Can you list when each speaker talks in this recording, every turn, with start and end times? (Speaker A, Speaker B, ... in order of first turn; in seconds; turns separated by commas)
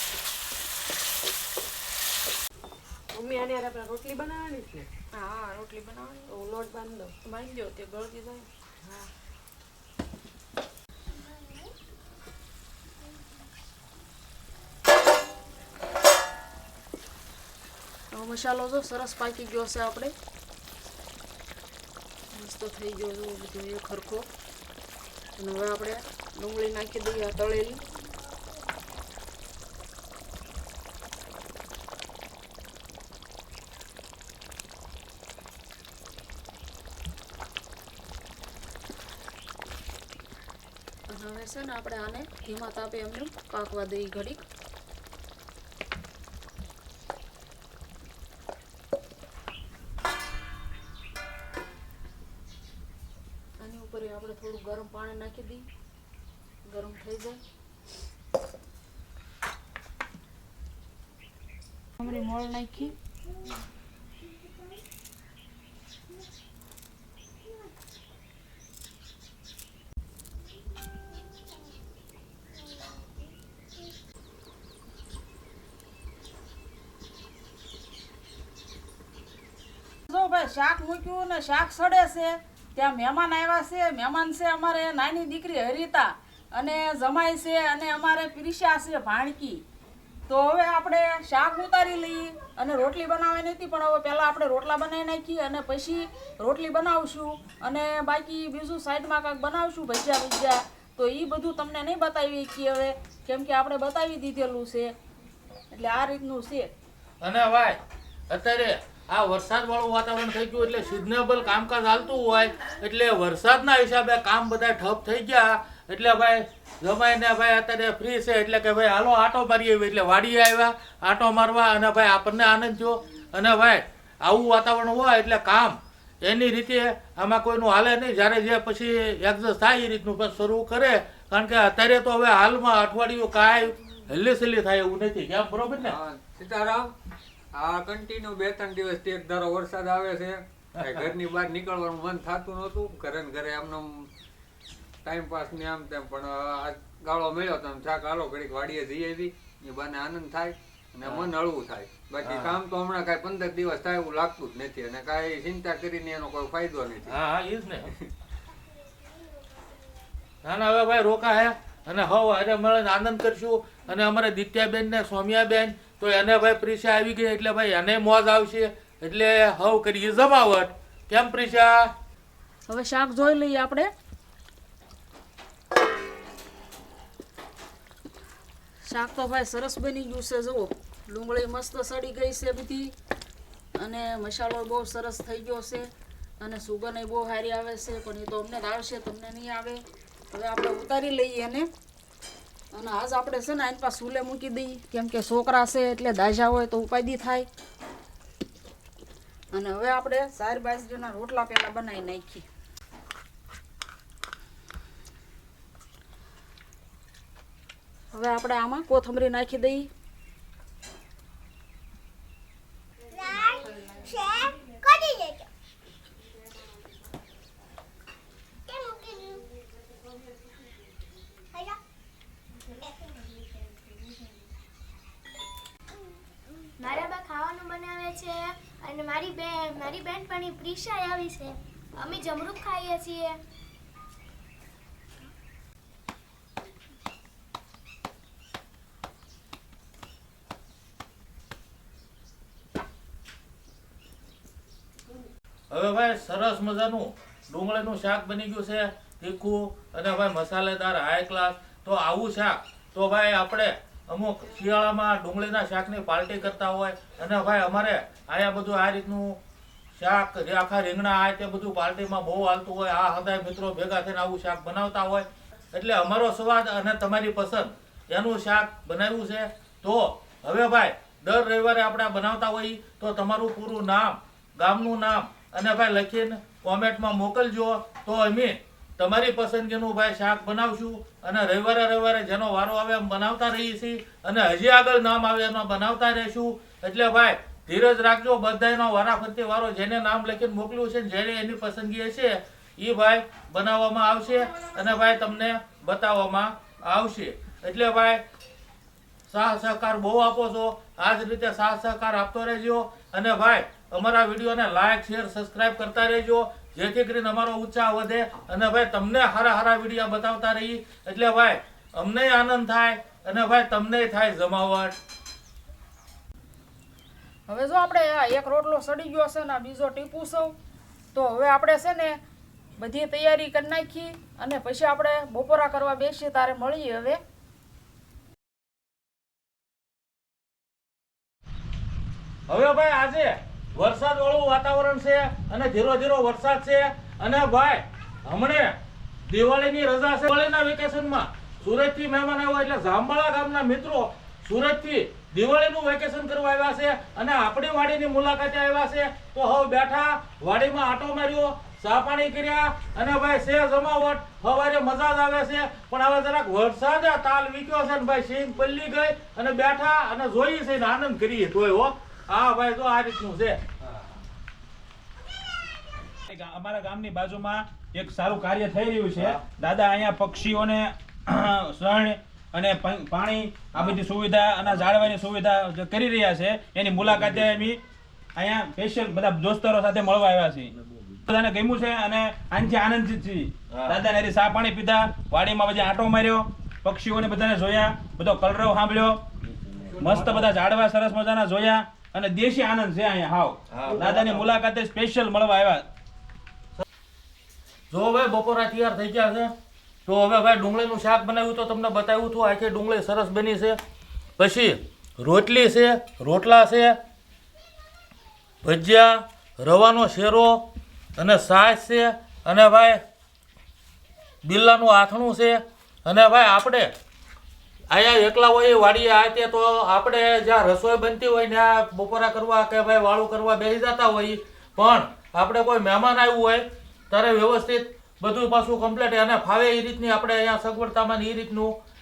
Speaker A: 3.1-4.9, Speaker B: 5.1-6.3, Speaker A: 6.3-7.2, Speaker B: 7.2-8.5, Speaker B: 18.1-20.1, Speaker B: 22.3-24.3, Speaker B: 25.4-27.8, Speaker B: 41.1-44.5, Speaker B: 53.6-55.7, Speaker B: 56.7-57.4, Speaker B: 62.0-63.0, Speaker B: 80.1-89.6, Speaker B: 90.3-104.9, Speaker B: 105.7-106.7, Speaker C: 107.2-107.8, Speaker C: 108.3-136.0, Speaker D: 135.8-136.9, Speaker D: 137.5-144.1, Speaker C: 140.8-141.1, Speaker D: 145.0-157.2, Speaker C: 151.0-151.3, Speaker C: 152.2-152.6, Speaker C: 157.1-157.9, Speaker C: 160.4-171.9, Speaker B: 172.7-173.9, Speaker B: 178.8-182.9, Speaker B: 183.8-185.9, Speaker B: 186.4-189.8, Speaker B: 190.3-191.7, Speaker B: 192.7-197.5, Speaker B: 199.5-202.5, Speaker B: 208.1-209.9, Speaker E: 213.1-215.5, Speaker E: 218.7-219.5, Speaker E: 222.7-223.3, Speaker E: 226.8-233.4, Speaker C: 245.7-259.4, Speaker C: 260.0-298.2, Speaker C: 299.3-315.0, Speaker B: 317.5-320.6, Speaker B: 321.1-322.2, Speaker B: 322.8-327.2, Speaker C: 332.5-363.6, Speaker F: 366.3-377.8, Speaker F: 378.4-380.7, Speaker F: 381.3-389.2, Speaker C: 383.7-384.0, Speaker F: 389.9-395.9, Speaker C: 393.7-394.3, Speaker C: 397.9-399.5, Speaker C: 400.1-403.8, Speaker C: 404.4-407.0, Speaker C: 408.6-413.0, Speaker C: 414.4-416.9, Speaker C: 417.9-431.8